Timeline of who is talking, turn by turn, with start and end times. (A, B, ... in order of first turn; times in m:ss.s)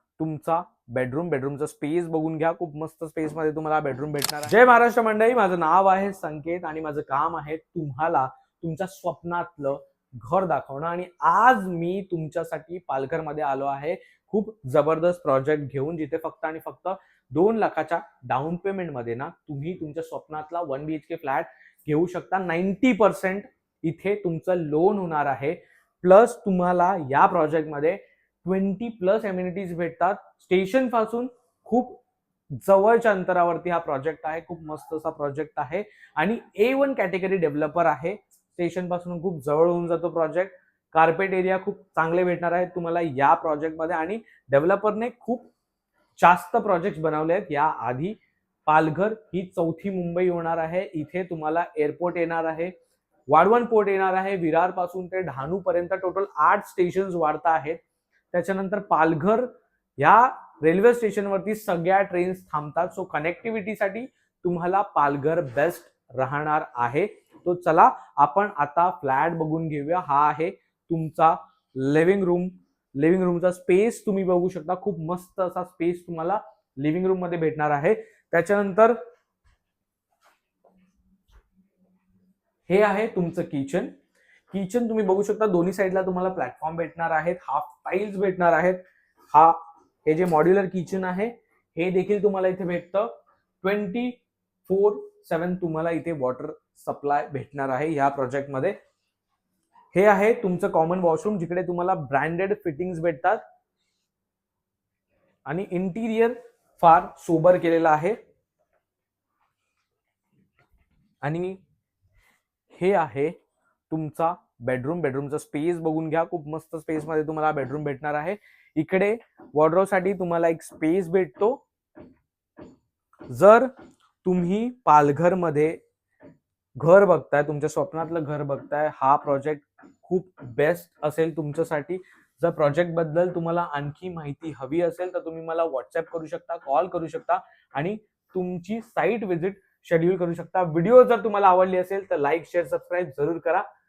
0:00.2-0:32.0 A
0:32.5-0:45.5 A
0:46.2-0:52.7 A
0:53.3-0:57.8 A
0:58.3-1:19.0 A
1:22.7-1:23.9 A
1:24.5-1:38.8 A
1:39.9-1:43.4 A
1:45.5-1:48.2 A
1:51.2-1:51.6 A
1:52.7-1:53.4 A
1:53.9-2:01.6 A
2:03.3-2:03.7 A
2:04.2-2:05.8 A
2:06.8-2:23.6 A